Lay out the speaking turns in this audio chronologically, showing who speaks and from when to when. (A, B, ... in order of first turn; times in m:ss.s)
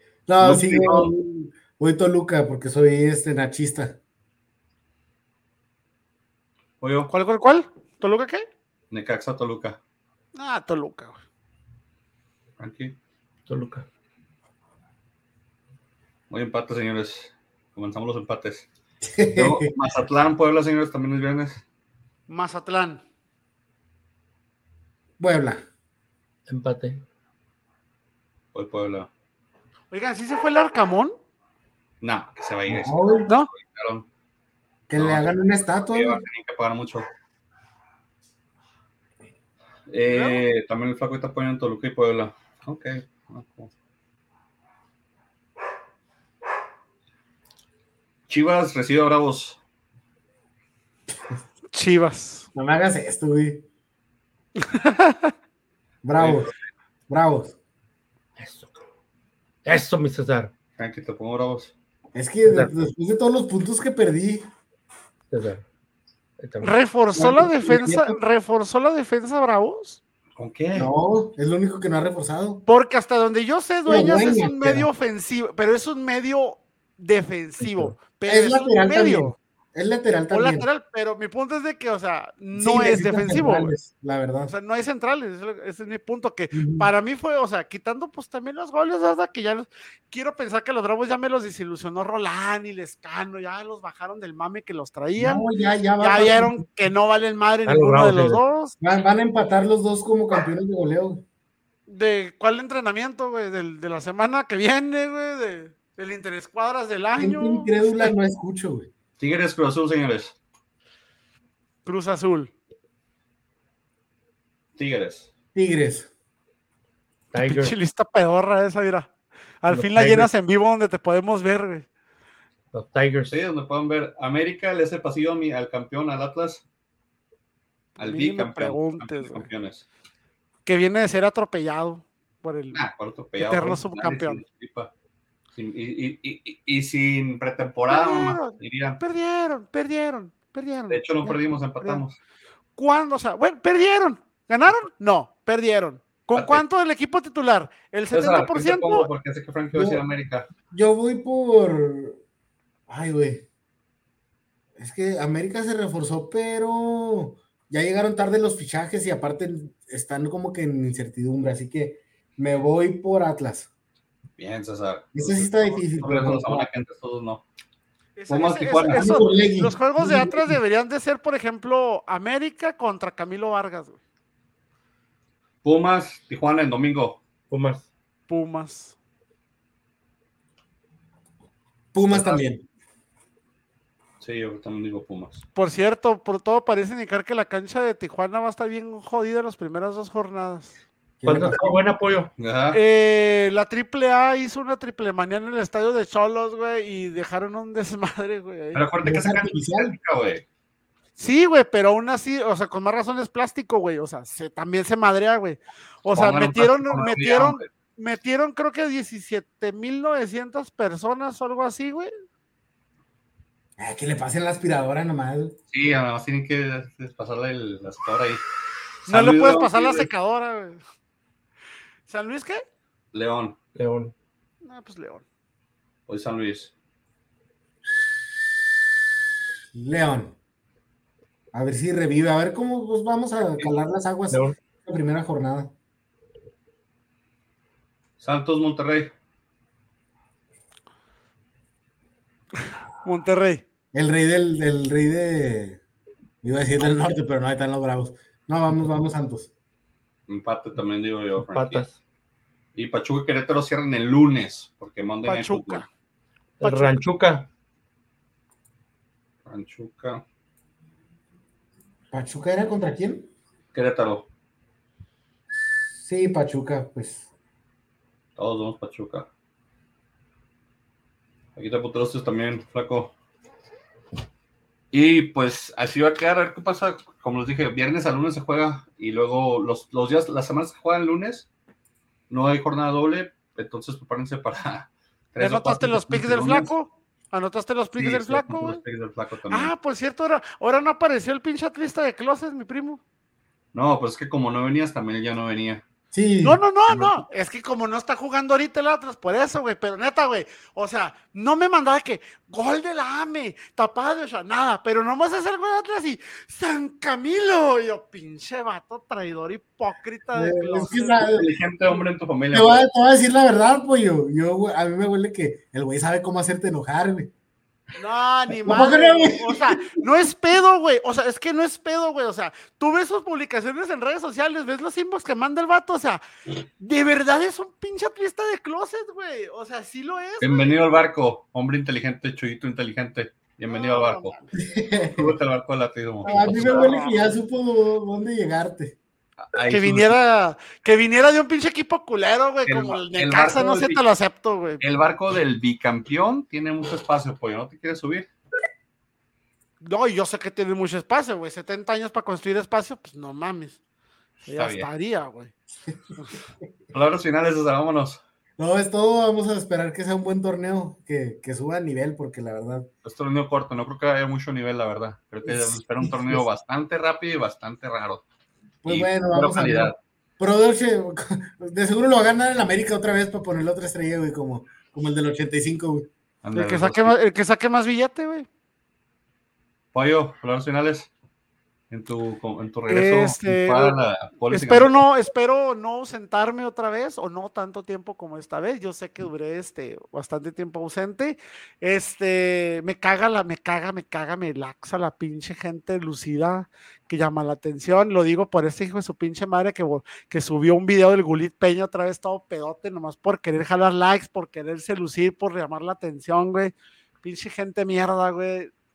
0:00.3-0:04.0 A
0:00.4-0:01.1 B
0:06.8-0:07.1 B
0:07.1-0:08.4 C
0:08.9-0:09.8 B
0:10.4-0:11.2 C
0:12.6-0:13.0 B
0:13.5-0:13.9 D
0:16.3-0:18.7 B
0:19.0-0:19.7 A
0:19.3-0:21.6 B
0:22.3-0:23.0 C
0:25.2-0:25.7 A
0:26.5-0:27.0 D
0:28.5-0:29.1 B
0:29.9-0:31.2 C
0:32.0-0:34.1 B
0:32.7-0:33.3 A
0:34.9-0:36.2 A
0:35.0-0:35.3 B
0:35.8-0:37.1 B
0:39.9-0:43.7 B
0:40.1-0:40.4 C
0:48.3-0:49.6 B
0:51.7-0:52.5 C
0:52.6-0:53.7 A
0:54.6-0:55.3 C
0:56.0-0:56.5 A
0:56.2-0:56.5 B
0:57.1-0:57.6 A
0:58.4-0:58.8 D
0:59.6-1:00.5 D
1:00.8-1:01.7 B
1:02.1-1:04.4 A
1:02.5-1:02.9 D
1:05.3-1:05.6 D
1:06.4-1:06.7 D
1:06.6-1:10.0 C
1:07.2-1:08.2 A
1:10.4-1:10.9 B
1:10.8-1:12.6 A
1:12.7-1:19.3 C
1:13.9-1:14.9 A
1:17.6-1:20.7 A
1:20.3-1:23.7 C
1:22.6-1:24.5 A
1:24.5-1:35.5 C
1:26.5-1:26.9 A
1:35.2-1:36.6 A
1:36.0-1:38.8 C
1:37.7-1:38.4 D
1:38.8-1:41.2 A
1:41.9-1:48.1 C
1:47.2-1:48.9 A
1:49.2-1:50.4 B
1:51.8-1:52.5 C
1:54.8-1:55.3 B
1:55.6-1:56.1 A
1:57.3-1:57.8 D
1:57.4-1:59.1 C
1:59.6-2:01.9 C
1:59.7-2:00.3 D
2:02.7-2:03.3 D
2:03.3-2:06.6 B
2:08.0-2:09.9 B
2:08.0-2:09.5 C
2:10.7-2:12.8 C
2:12.7-2:14.9 B
2:13.4-2:14.4 C
2:15.6-2:19.0 B
2:17.9-2:22.0 C
2:20.9-2:22.2 B
2:22.8-2:29.1 C
2:26.4-2:26.6 B
2:28.1-2:30.5 B
2:29.7-2:30.0 A
2:30.7-2:32.2 A
2:32.9-2:33.5 A
2:34.8-2:43.7 A
2:44.4-2:47.4 B
2:45.2-2:46.7 A
2:48.2-2:54.0 C
2:48.3-2:49.2 B
2:48.9-2:50.6 A
2:55.6-2:57.2 B
2:57.5-2:57.9 D
2:58.3-2:59.0 C
3:01.9-3:02.6 A
3:02.1-3:02.4 B
3:04.2-3:05.4 B
3:05.6-3:10.7 C
3:11.2-3:12.0 A
3:11.3-3:12.3 D
3:12.4-3:12.8 B
3:12.7-3:18.9 C
3:18.7-3:20.4 B
3:19.0-3:20.0 A
3:21.2-3:32.1 C
3:26.1-3:27.7 B
3:33.8-3:35.6 A
3:35.7-3:38.4 B
3:39.0-3:40.1 B
3:39.1-3:40.8 C
3:42.1-3:42.6 C
3:43.1-3:43.6 B
3:43.8-3:44.1 D
3:44.6-3:45.2 C
3:46.1-3:46.7 B
3:49.7-3:50.4 A
3:51.5-3:55.7 A
3:54.3-3:54.6 D
3:58.2-3:59.1 B
4:02.6-4:03.6 C
4:03.9-4:05.8 A
4:06.4-4:09.5 A
4:10.3-4:11.8 B
4:11.4-4:12.0 D
4:12.8-4:15.8 B
4:15.3-4:15.9 C
4:16.6-4:17.5 D
4:16.6-4:17.0 C
4:19.4-4:20.2 B
4:22.1-4:23.3 A
4:23.7-4:24.3 B
4:26.0-4:27.3 A
4:28.4-4:29.3 B
4:31.6-4:33.1 B
4:34.9-4:41.5 B
4:42.3-4:46.7 B
4:45.4-4:48.8 C
4:48.0-4:49.7 B
4:49.5-4:53.0 C
4:53.7-4:55.8 B
4:56.1-4:57.2 A
4:56.4-5:11.3 C
5:10.4-5:11.5 A
5:11.2-5:12.9 B
5:12.5-5:17.3 A
5:18.0-5:26.2 C
5:18.5-5:20.0 A
5:26.8-5:30.8 C
5:30.4-5:34.4 B
5:33.7-5:34.6 C
5:34.6-5:35.4 A
5:35.1-5:37.0 B
5:36.2-5:39.0 A
5:36.3-5:37.3 C
5:39.4-5:40.2 B
5:39.7-5:44.8 C
5:42.7-5:44.0 B
5:44.8-5:48.3 B
5:49.8-5:53.8 C
5:54.5-5:55.5 C
5:54.5-5:54.9 B
5:56.9-5:58.2 B
5:58.6-6:02.9 A
6:03.0-6:08.2 B
6:05.5-6:06.4 A
6:08.8-6:16.1 A
6:08.9-6:10.0 B
6:16.4-6:17.1 B
6:16.5-6:18.5 C
6:19.9-6:21.1 B
6:21.9-6:25.0 B
6:22.9-6:24.0 C
6:24.5-6:48.7 C